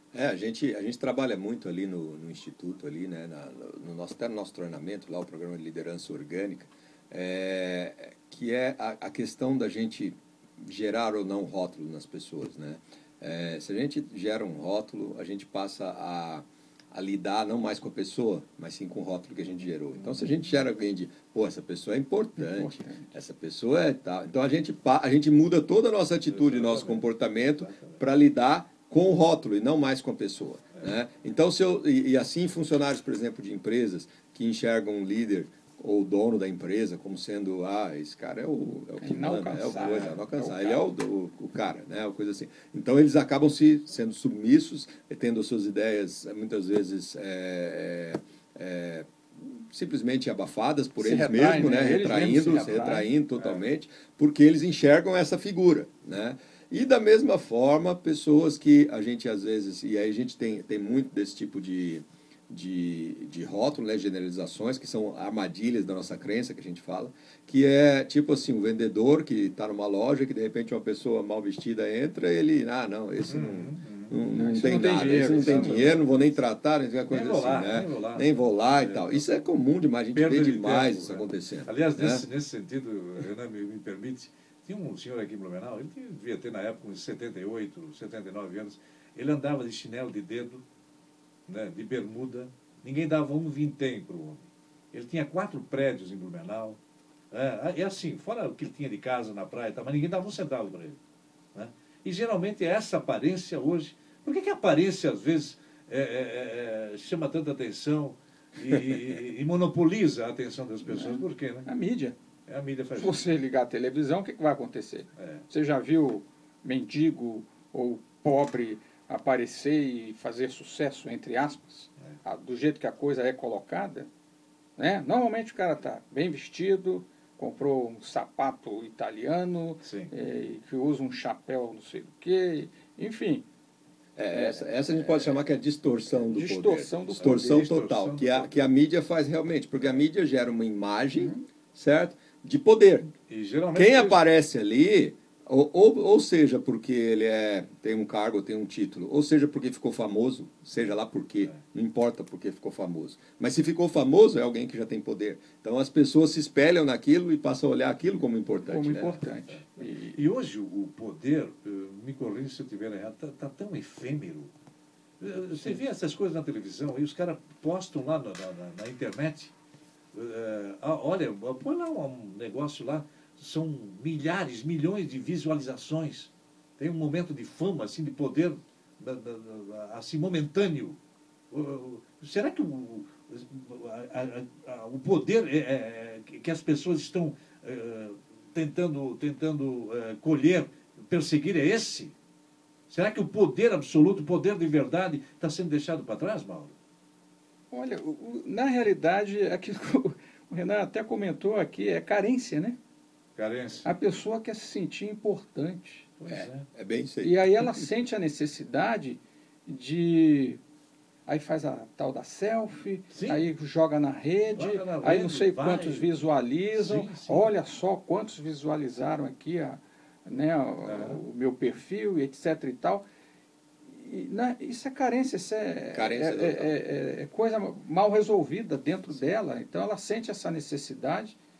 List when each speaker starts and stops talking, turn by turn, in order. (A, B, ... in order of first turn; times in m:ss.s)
0:00.1-1:22.2 A
0:22.4-0:23.1 B
0:26.3-0:28.0 C
0:39.0-0:40.8 B
0:39.8-0:40.2 C
0:51.0-0:53.1 B
1:13.3-1:14.2 C
1:14.3-1:16.0 B
1:15.2-1:16.3 C
1:17.1-1:19.2 C
1:20.1-1:30.6 C
1:31.5-1:36.8 C
1:37.3-1:41.0 C
1:41.5-1:51.7 C
1:50.9-1:52.1 B
1:52.5-1:53.2 C
1:53.0-2:04.1 B
1:55.2-1:55.4 C
2:04.8-2:13.4 B
2:09.8-2:10.1 C
2:14.2-2:23.1 A
2:14.3-2:15.3 B
2:16.1-2:17.7 B
2:17.2-2:18.6 C
2:23.3-2:24.2 C
2:23.7-2:39.2 A
2:38.7-2:40.2 B
2:39.5-2:44.5 C
2:45.2-2:49.5 C
2:50.1-3:01.0 C
3:01.5-3:12.1 C
3:12.9-3:16.7 C
3:17.7-3:22.8 B
3:23.4-3:23.9 C
3:23.8-3:26.1 B
3:26.2-3:26.7 C
3:26.3-3:27.9 A
3:27.2-3:30.6 B
3:31.2-3:43.0 B
3:33.1-3:33.4 C
3:34.5-3:36.1 C
3:36.7-3:37.5 C
3:40.8-3:41.2 C
3:43.9-3:51.4 B
3:45.9-3:46.8 A